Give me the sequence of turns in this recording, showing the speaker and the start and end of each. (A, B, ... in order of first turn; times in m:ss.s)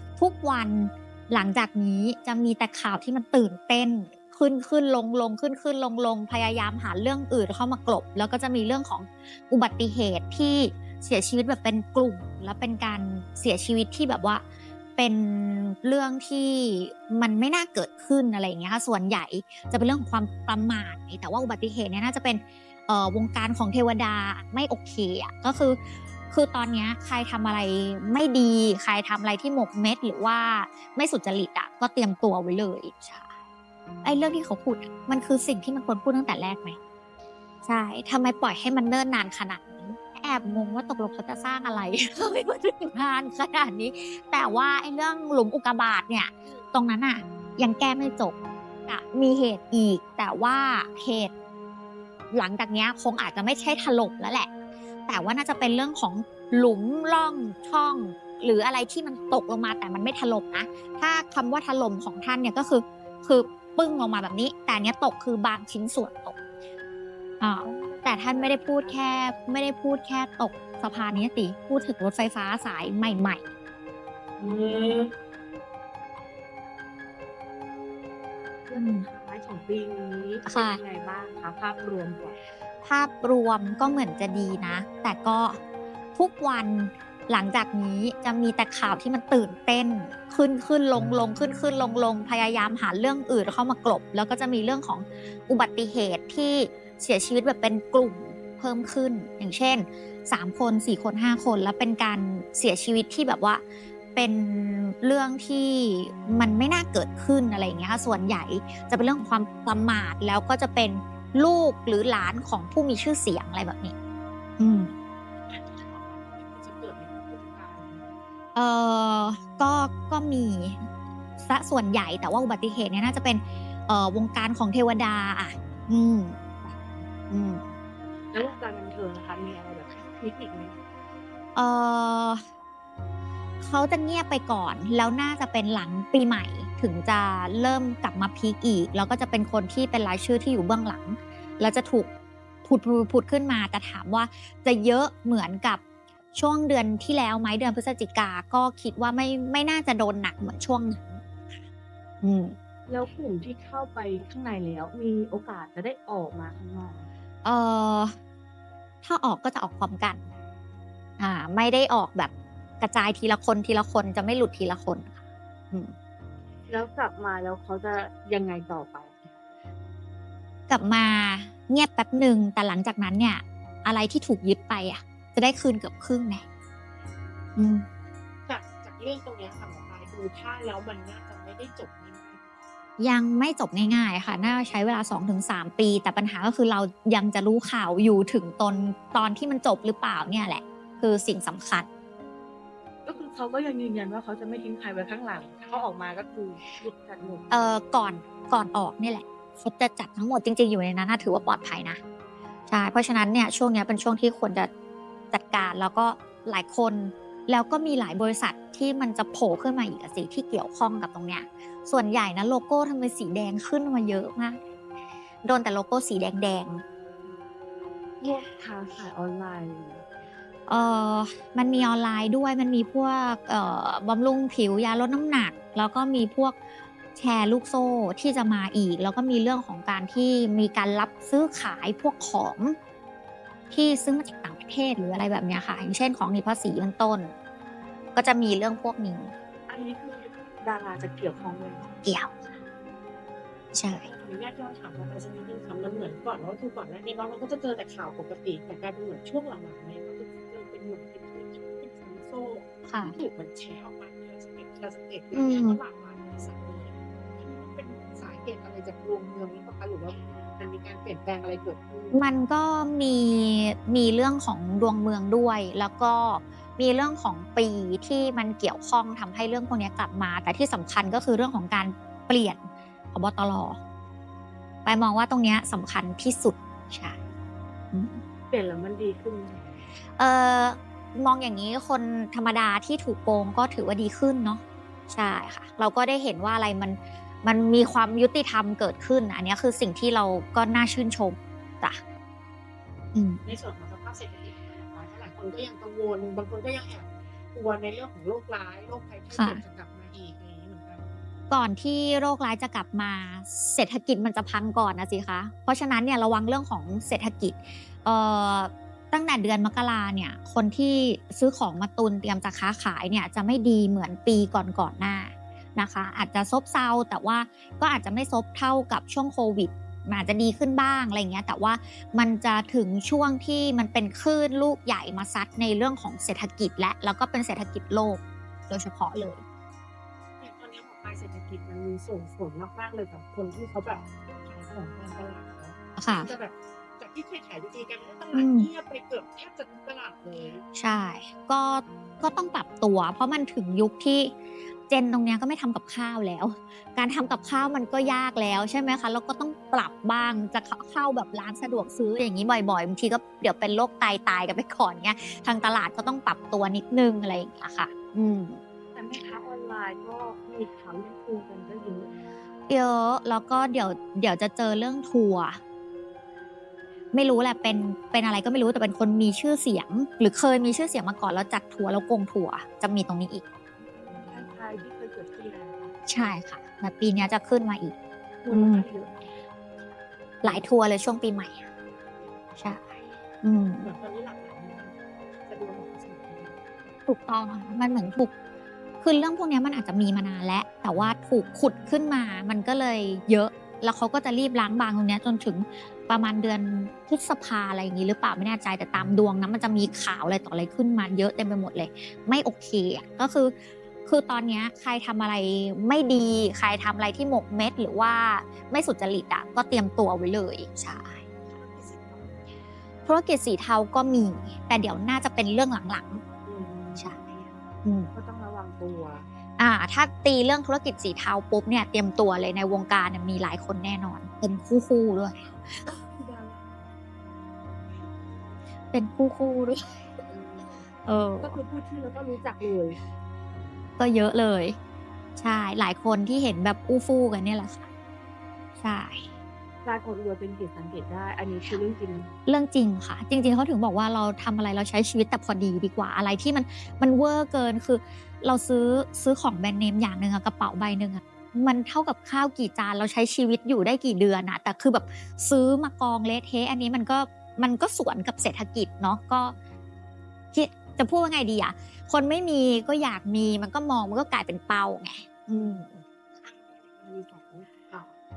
0:00.2-0:14.4 A
0:15.0-0:25.8 A
0:26.3-0:33.3 A
0:34.0-0:36.8 A
0:37.6-0:48.3 A
0:48.9-0:51.3 A
0:52.3-0:54.5 A
0:55.1-1:06.4 A
1:07.4-1:13.4 A
1:07.6-1:09.0 B
1:14.4-1:15.1 B
1:14.5-1:14.9 C
1:18.7-1:22.4 B
1:18.7-1:19.1 A
1:20.5-1:20.8 A
1:22.8-1:25.6 A
1:26.2-1:43.6 A
1:44.2-1:53.9 A
1:54.6-1:54.9 A
1:55.5-1:58.1 C
1:58.6-2:00.9 A
2:01.4-2:07.7 A
2:08.3-2:10.7 B
2:11.6-2:12.4 A
2:13.6-2:22.1 A
2:22.6-2:25.8 A
2:26.3-2:31.4 A
2:32.2-2:32.6 A
2:32.9-2:37.1 B
2:37.4-2:38.2 A
2:39.0-2:40.3 A
2:41.2-2:45.9 A
2:46.7-2:49.4 B
2:50.7-2:56.4 A
2:57.6-2:57.9 A
2:58.5-3:02.5 C
3:03.0-3:11.9 A
3:13.0-3:17.5 B
3:17.5-3:22.0 A
3:22.7-3:24.7 A
3:25.3-3:34.6 A
3:35.4-3:36.8 A
3:38.2-3:40.0 B
3:40.7-3:46.6 A
3:47.2-3:52.8 A
3:53.7-3:57.3 A
3:58.2-3:59.3 A
3:59.7-4:01.8 B
4:01.5-4:01.8 C
4:02.0-4:02.5 A
4:03.7-4:04.1 A
4:03.9-4:22.2 C
4:12.9-4:13.2 A
4:15.3-4:15.8 A
4:22.1-4:33.8 A
4:34.8-4:37.2 A
4:37.9-4:38.2 A
4:38.5-4:39.8 B
4:40.2-4:52.0 A
4:53.1-4:53.4 A
4:53.4-5:01.2 C
4:59.3-4:59.6 A
5:01.5-5:29.4 A
5:30.4-5:40.6 C
5:36.0-5:36.3 A
5:38.3-5:38.7 A
5:40.8-5:44.4 A
5:44.9-5:58.6 A
5:58.9-6:02.1 B
6:02.7-6:05.6 A
6:07.1-6:13.4 A
6:13.8-6:15.9 B
6:15.5-6:15.9 C
6:16.1-6:18.0 A
6:18.5-6:18.9 B
6:18.5-6:18.9 A
6:18.5-6:19.2 C
6:20.4-6:21.7 A
6:22.6-6:23.9 A
6:23.8-6:26.6 C
6:27.1-6:28.3 A
6:29.0-6:51.2 A
6:51.4-6:52.5 C
6:53.1-6:56.2 A
6:56.5-6:57.2 B
6:57.8-6:58.1 A
6:58.1-6:59.2 B
6:59.6-7:05.8 A
7:06.2-7:06.8 B
7:06.4-7:06.8 C
7:08.9-7:10.0 A
7:10.3-7:10.7 B
7:11.1-7:11.6 A
7:11.4-7:13.0 B
7:14.0-7:14.8 A
7:15.4-7:17.9 A
7:18.8-7:19.3 A
7:19.8-7:22.3 B
7:22.5-7:39.6 A
7:40.5-7:45.9 A
7:45.5-7:48.2 C